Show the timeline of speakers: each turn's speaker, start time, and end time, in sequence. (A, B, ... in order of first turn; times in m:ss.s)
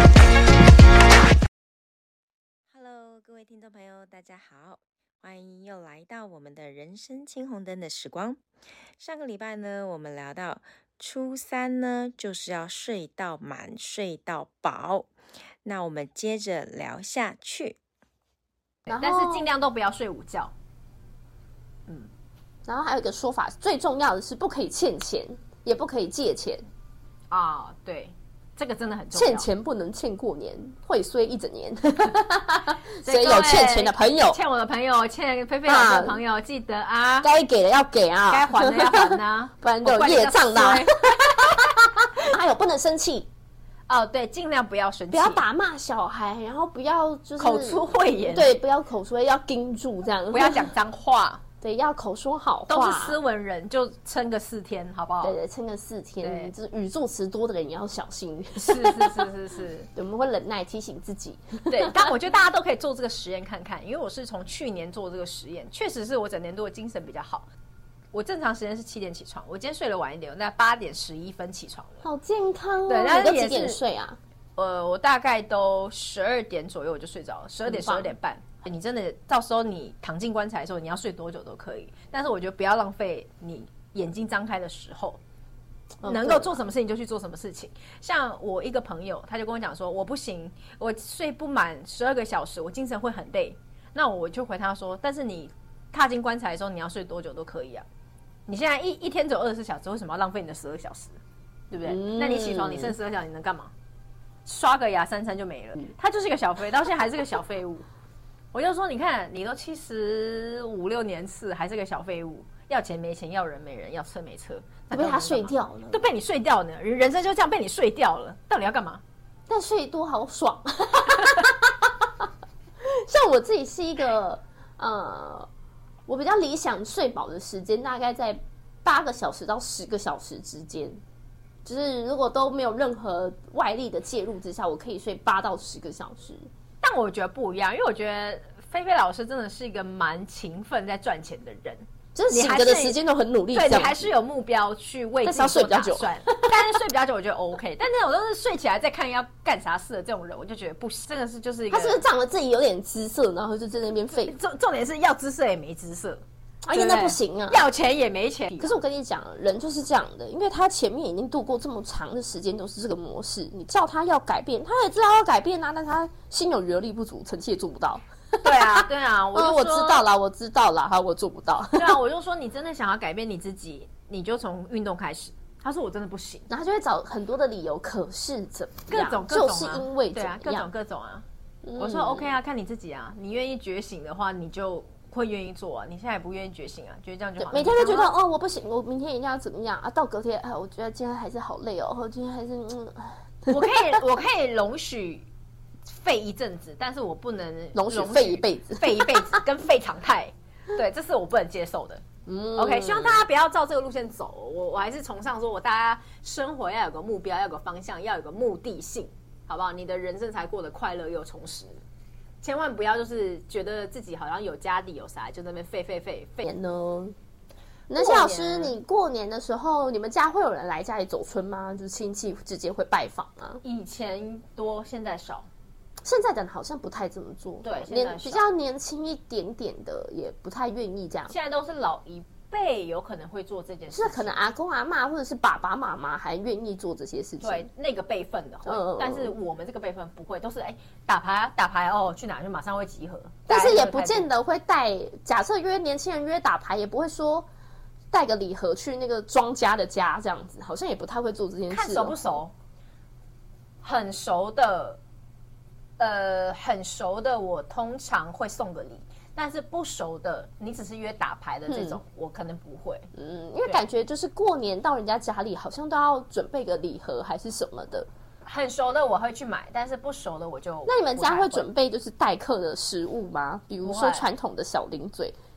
0:02.7-0:08.4 A
0:09.0-0:15.1 A
0:15.6-0:17.8 A
0:18.9-0:19.5 B
0:18.9-0:20.5 C
0:22.7-0:26.6 B
0:27.3-0:29.5 C
0:29.1-0:34.4 B
0:33.0-0:37.3 C
0:35.7-0:36.2 B
0:37.2-0:43.3 B
0:38.3-0:41.6 C
0:43.9-0:45.4 C
0:45.1-0:50.7 B
0:47.4-0:48.6 C
0:50.3-0:51.4 C
0:51.6-0:53.2 B
0:52.7-0:55.4 C
0:55.2-0:59.3 B
0:56.2-0:56.5 C
0:58.6-0:59.9 C
0:59.9-1:02.1 B
1:01.7-1:07.5 C
1:08.1-1:12.0 C
1:12.0-1:14.2 B
1:12.9-1:13.8 C
1:14.6-1:25.2 C
1:17.6-1:18.1 B
1:26.0-1:26.6 B
1:26.0-1:37.8 C
1:38.5-1:41.2 C
1:41.7-1:43.7 C
1:41.8-1:43.0 B
1:44.4-1:47.8 C
1:48.5-1:59.0 C
1:54.9-1:56.0 B
1:59.5-2:02.3 B
2:02.8-2:05.5 B
2:06.1-2:11.0 B
2:11.6-2:16.5 B
2:16.8-2:23.0 C
2:22.2-2:24.1 B
2:23.5-2:32.0 C
2:25.2-2:26.6 B
2:31.7-2:34.4 B
2:34.2-2:38.8 C
2:36.6-2:37.7 B
2:38.6-2:52.0 B
2:48.4-2:50.1 C
2:51.8-2:56.5 C
2:56.5-3:00.7 B
2:58.9-3:01.3 C
3:01.6-3:02.4 B
3:01.8-3:08.2 C
3:07.4-3:14.0 B
3:13.5-3:15.3 C
3:15.9-3:22.0 C
3:17.7-3:19.4 B
3:22.3-3:23.2 B
3:22.6-3:31.8 C
3:32.4-3:36.4 C
3:36.4-3:37.2 B
3:37.9-3:43.6 B
3:37.9-3:38.8 C
3:43.6-3:45.5 C
3:46.0-3:51.3 B
3:47.6-3:48.4 C
3:51.3-3:54.5 C
3:53.9-3:57.7 B
3:57.4-4:04.3 C
3:58.6-3:59.4 B
4:03.5-4:07.5 B
4:08.1-4:12.4 B
4:11.7-4:12.5 C
4:13.8-4:15.0 C
4:16.0-4:23.1 C
4:21.7-4:22.0 B
4:23.2-4:28.1 B
4:28.4-4:31.7 C
4:30.9-4:35.4 B
4:33.8-4:34.3 C